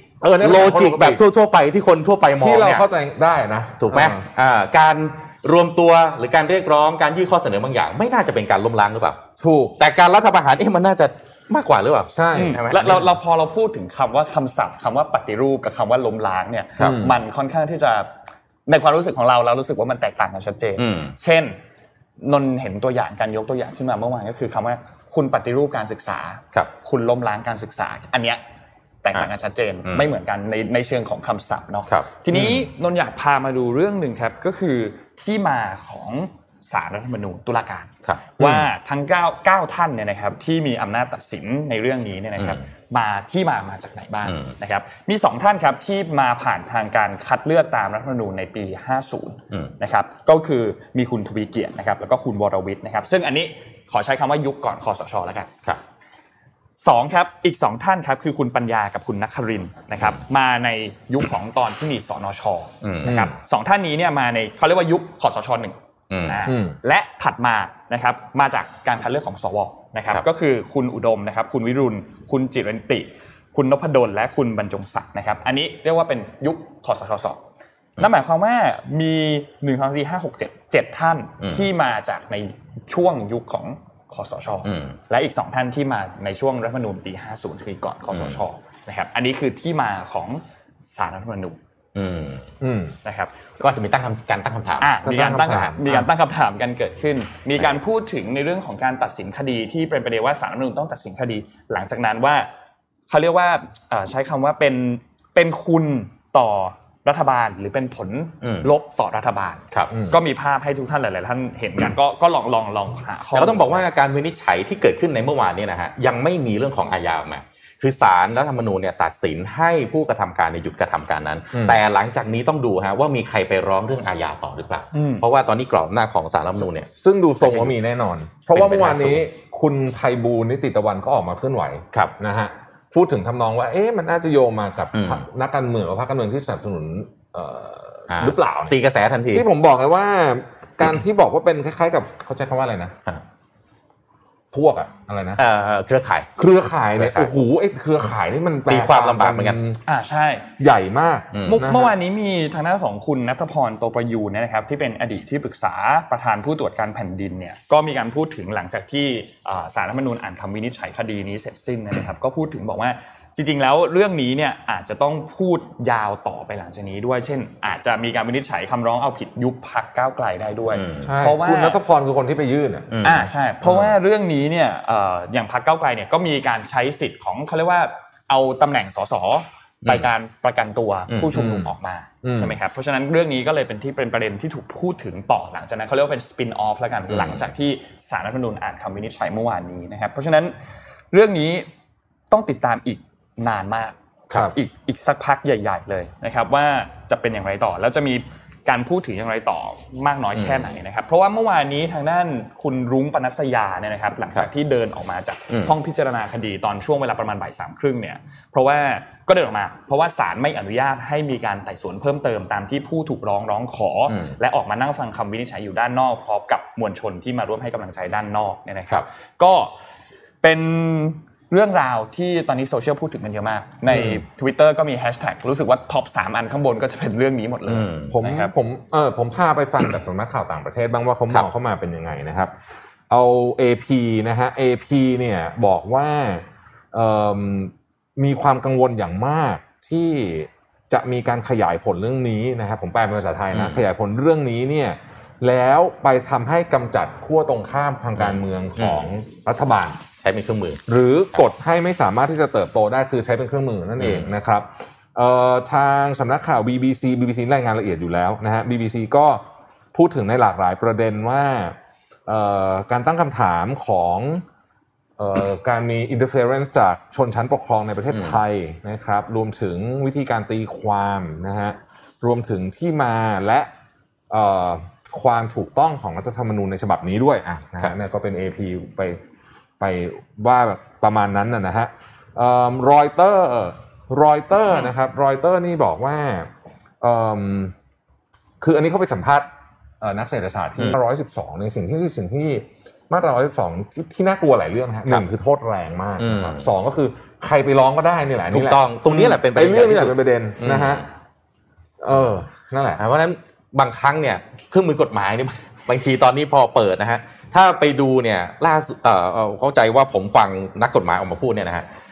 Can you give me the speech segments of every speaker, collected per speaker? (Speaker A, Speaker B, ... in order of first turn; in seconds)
Speaker A: 0.2-1.2, 2.4-4.2, 9.4-9.8, 12.1-12.6, 16.8-17.2, 63.0-63.3, 66.5-66.8, 92.6-93.0, 95.0-96.1, 109.9-110.2, 121.5-121.8, 126.9-138.7, 139.3-142.9, 144.5-145.4, 146.4-149.8, 150.6-151.9, 171.0-173.0, 181.3-181.7, 182.2-182.6, 228.1-232.5, 233.1-250.0, 250.9-259.4, 259.9-261.8, 262.3-264.4, 265.2-273.7, 274.3-279.2, 279.8-286.5, 287.0-287.7, 288.6-289.5, 290.0-301.0, 302.0-303.0
Speaker B: 0.4-2.8, 3.8-9.2, 9.8-13.1, 20.8-21.1, 31.9-32.5, 38.0-38.6, 44.2-44.5, 62.8-63.2, 66.1-66.4, 81.4-81.7, 84.6-84.9, 88.1-88.4, 91.9-92.5, 93.6-94.9, 108.4-108.7, 113.3-126.9, 127.4-127.7, 128.5-129.2, 134.9-135.2, 138.1-139.4, 145.4-146.3, 147.0-147.3, 148.7-149.6, 151.3-151.6, 170.7-171.1, 172.9-173.9, 187.1-187.5, 200.3-200.7, 214.1-214.3, 227.7-228.1, 243.5-243.8, 248.2-249.1, 250.2-250.8, 254.0-254.3, 268.1-268.4, 296.2-296.7, 298.5-301.0, 303.0-311.9
Speaker C: 12.3-18.1, 18.7-21.6, 22.2-28.4, 29.0-55.5, 56.8-65.8, 66.3-77.4, 78.0-91.6, 93.0-93.3, 94.8-102.5, 103.1-113.8, 124.9-125.2, 149.8-150.5, 151.4-171.8, 173.0-190.6, 191.1-191.7, 192.3-194.0, 194.5-219.7, 220.4-228.5